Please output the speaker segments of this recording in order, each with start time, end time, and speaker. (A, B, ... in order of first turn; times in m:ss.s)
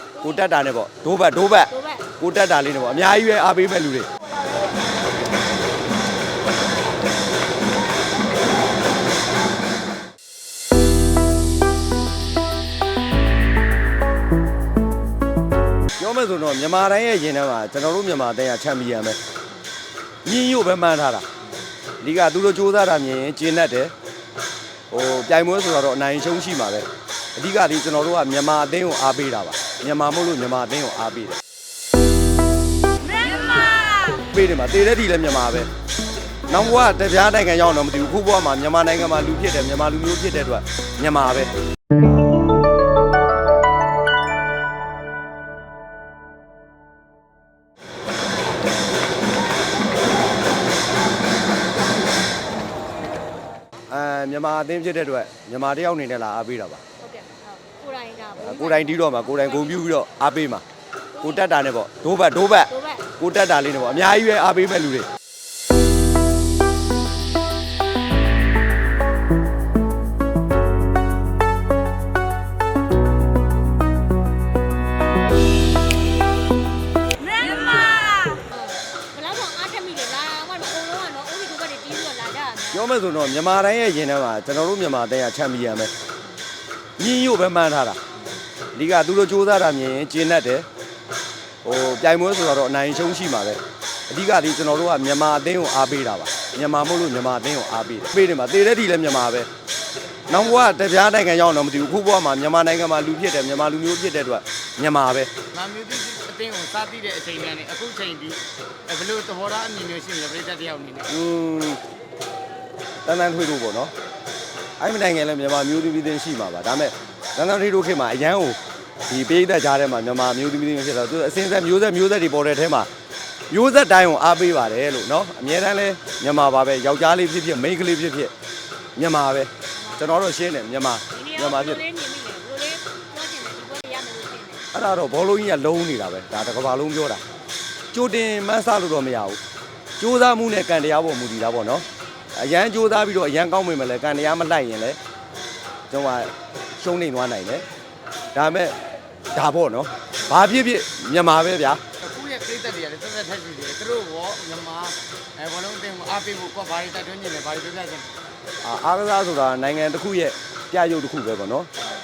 0:00.2-0:04.1 A
0:01.7-0:02.1 B
0:16.0-0:19.2 A
0:20.3-0:21.3 A
0:22.0-0:23.9 A
0:24.9-0:31.4 A
0:34.2-0:35.7 A
0:36.5-0:41.5 A
0:53.9-0:56.8 A
0:57.0-0:59.8 B
0:58.4-1:00.6 A
1:01.2-1:01.5 B
1:01.2-1:05.1 A
1:02.7-1:03.1 B
1:17.2-1:22.9 B
1:22.7-1:25.9 A
1:27.0-1:28.0 A
1:28.2-1:28.4 B
1:28.8-1:30.7 A
1:31.6-1:39.5 A
1:40.3-1:45.3 A
1:45.5-1:51.1 C
1:51.1-1:51.8 A
1:53.0-1:53.9 A
1:54.8-2:02.9 A
2:03.5-2:08.3 A
2:09.0-2:11.8 A
2:09.8-2:10.1 B
2:11.1-2:14.7 B
2:14.7-2:17.2 A
2:17.9-2:19.4 A
2:20.0-2:21.8 A
2:22.4-2:25.0 A
2:25.9-2:27.6 A
2:28.3-2:28.8 A
2:29.4-2:31.8 A
2:32.0-2:38.2 C
2:38.6-2:41.7 A